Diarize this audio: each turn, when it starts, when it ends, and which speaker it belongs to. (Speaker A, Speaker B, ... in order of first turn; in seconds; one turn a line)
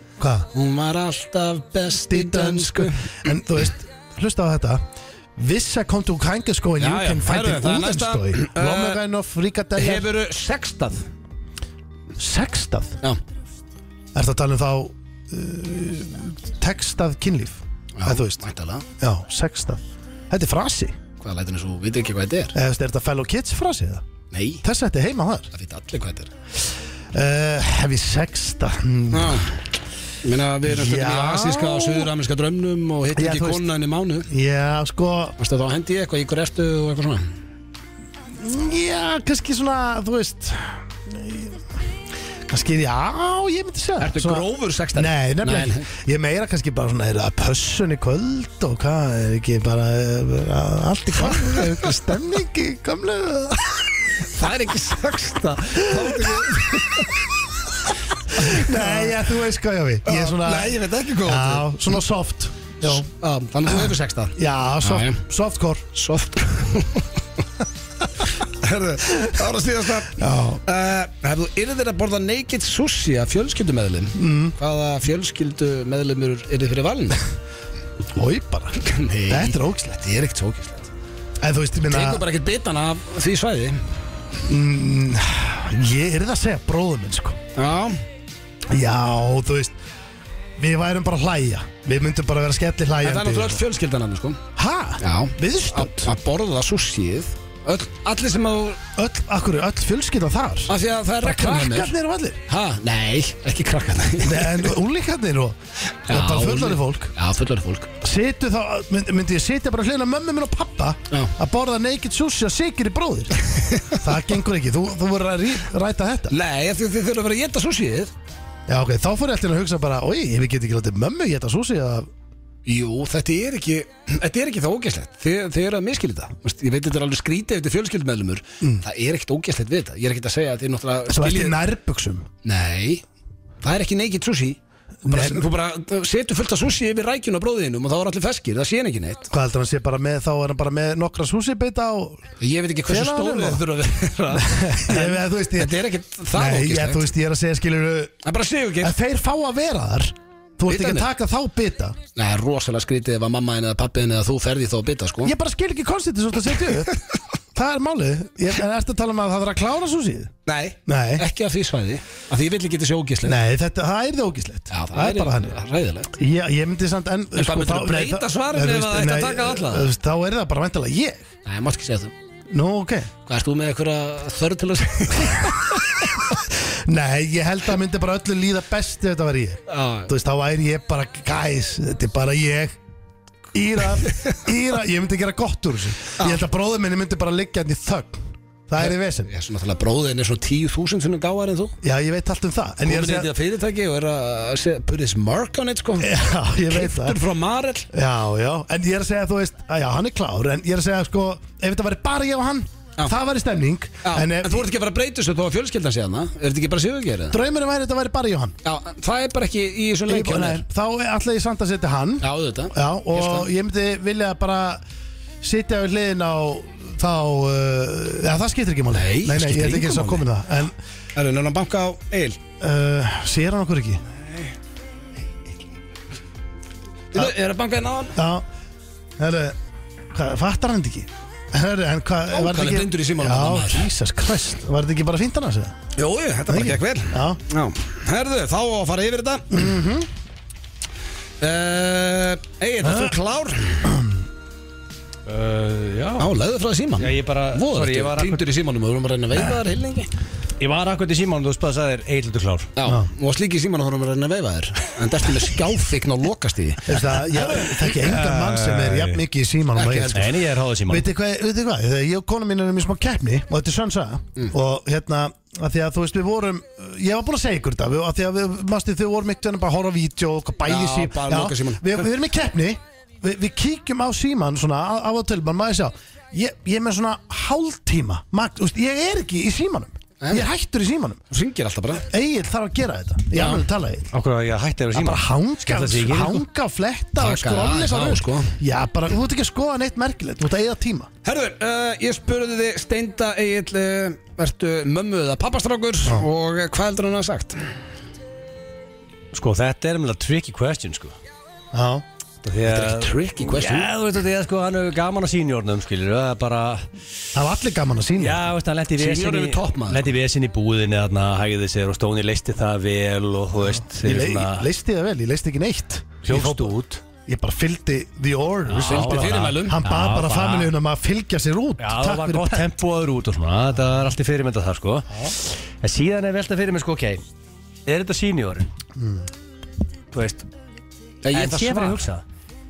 Speaker A: 0.2-0.5
Speaker B: 0.5-3.1
Speaker A: 2.1-4.8
Speaker A: 5.4-10.1
Speaker B: 6.8-9.0
Speaker B: 9.8-11.1
Speaker A: 12.2-13.0
Speaker A: 14.1-18.4
Speaker B: 18.0-18.9
Speaker A: 19.0-21.0
Speaker B: 21.2-22.6
Speaker A: 22.5-24.0
Speaker B: 24.3-24.6
Speaker A: 24.6-25.5
Speaker B: 25.5-26.3
Speaker A: 27.1-29.5
Speaker B: 29.1-29.6
Speaker B: 30.2-34.3
Speaker A: 30.7-32.1
Speaker A: 33.1-33.7
Speaker A: 34.3-35.4
Speaker B: 35.4-37.3
Speaker A: 38.4-41.6
Speaker A: 42.5-53.9
Speaker B: 44.0-45.9
Speaker B: 51.2-51.9
Speaker B: 54.2-57.2
Speaker A: 55.8-57.0
Speaker B: 58.3-59.2
Speaker A: 58.4-63.1
Speaker B: 60.0-61.7
Speaker B: 62.8-65.2
Speaker A: 64.4-65.9
Speaker B: 65.9-67.1
Speaker B: 68.4-77.2
Speaker A: 70.1-70.6
Speaker A: 74.2-74.5
Speaker A: 78.1-80.0
Speaker B: 78.8-80.9
Speaker A: 81.4-82.2
Speaker B: 81.9-83.8
Speaker A: 84.5-87.4
Speaker B: 87.6-88.0
Speaker A: 88.7-89.8
Speaker A: 90.6-93.6
Speaker B: 93.0-94.4
Speaker A: 94.6-96.1
Speaker B: 95.0-98.8
Speaker A: 99.0-102.4
Speaker B: 100.7-101.9
Speaker B: 102.5-104.7
Speaker A: 104.2-105.6
Speaker B: 106.1-107.9
Speaker A: 106.1-107.1
Speaker A: 108.0-116.3
Speaker B: 113.5-114.0
Speaker B: 116.3-118.1
Speaker A: 118.7-122.1
Speaker B: 122.7-131.6
Speaker A: 131.1-132.3
Speaker B: 132.4-133.0
Speaker B: 133.6-139.3
Speaker A: 135.0-135.5
Speaker A: 139.3-142.3
Speaker B: 142.4-147.1
Speaker A: 142.9-143.7
Speaker A: 144.3-145.8
Speaker A: 146.3-148.2
Speaker B: 148.2-148.9
Speaker A: 148.8-152.0
Speaker B: 150.7-151.1
Speaker B: 152.2-155.3
Speaker A: 155.2-156.9
Speaker A: 157.5-160.3
Speaker B: 160.5-163.4
Speaker A: 160.9-161.3
Speaker A: 163.2-165.6
Speaker B: 164.7-166.1
Speaker A: 166.1-171.3
Speaker B: 167.3-169.9
Speaker B: 171.4-172.1
Speaker A: 172.5-173.1
Speaker B: 173.3-176.0
Speaker A: 176.3-182.8
Speaker B: 179.7-180.1
Speaker A: 183.5-189.3
Speaker B: 188.8-191.8
Speaker A: 191.8-193.3
Speaker B: 192.8-196.2
Speaker A: 196.0-197.2
Speaker B: 196.7-197.9
Speaker A: 197.9-204.7
Speaker B: 204.0-207.4
Speaker A: 207.3-208.6
Speaker B: 208.6-210.6
Speaker A: 210.1-214.8
Speaker B: 212.2-213.5
Speaker A: 215.4-220.8
Speaker B: 218.9-220.3
Speaker B: 221.2-222.4
Speaker A: 222.6-224.0
Speaker B: 227.1-228.2
Speaker A: 228.2-228.4
Speaker A: 229.2-229.6
Speaker A: 230.1-235.8
Speaker B: 232.3-233.9
Speaker B: 235.9-239.7
Speaker A: 236.5-237.4
Speaker A: 239.5-240.1
Speaker B: 241.4-243.9
Speaker A: 242.8-243.1
Speaker C: 245.3-246.3
Speaker B: 246.2-250.1
Speaker C: 247.0-248.5
Speaker C: 250.6-252.7
Speaker B: 252.8-257.0
Speaker A: 256.9-281.2
Speaker C: 257.9-259.2
Speaker B: 259.8-260.3
Speaker C: 260.1-261.1
Speaker B: 270.6-272.1
Speaker B: 280.2-280.5
Speaker B: 281.3-282.1
Speaker A: 282.0-284.1
Speaker B: 283.4-283.6
Speaker C: 284.1-286.4
Speaker A: 284.9-291.1
Speaker B: 287.2-288.6
Speaker B: 291.2-297.6
Speaker C: 299.3-301.1
Speaker A: 301.7-302.0
Speaker C: 302.4-306.9
Speaker B: 302.6-303.9
Speaker A: 307.3-308.4
Speaker C: 308.2-314.7
Speaker B: 309.0-310.1
Speaker A: 313.9-316.8
Speaker C: 316.2-317.0
Speaker A: 317.3-322.7
Speaker C: 318.7-320.7
Speaker B: 318.8-319.8
Speaker C: 321.8-327.2
Speaker C: 327.9-328.7
Speaker A: 329.0-329.3
Speaker C: 330.1-330.5
Speaker B: 331.2-332.0
Speaker C: 331.3-332.2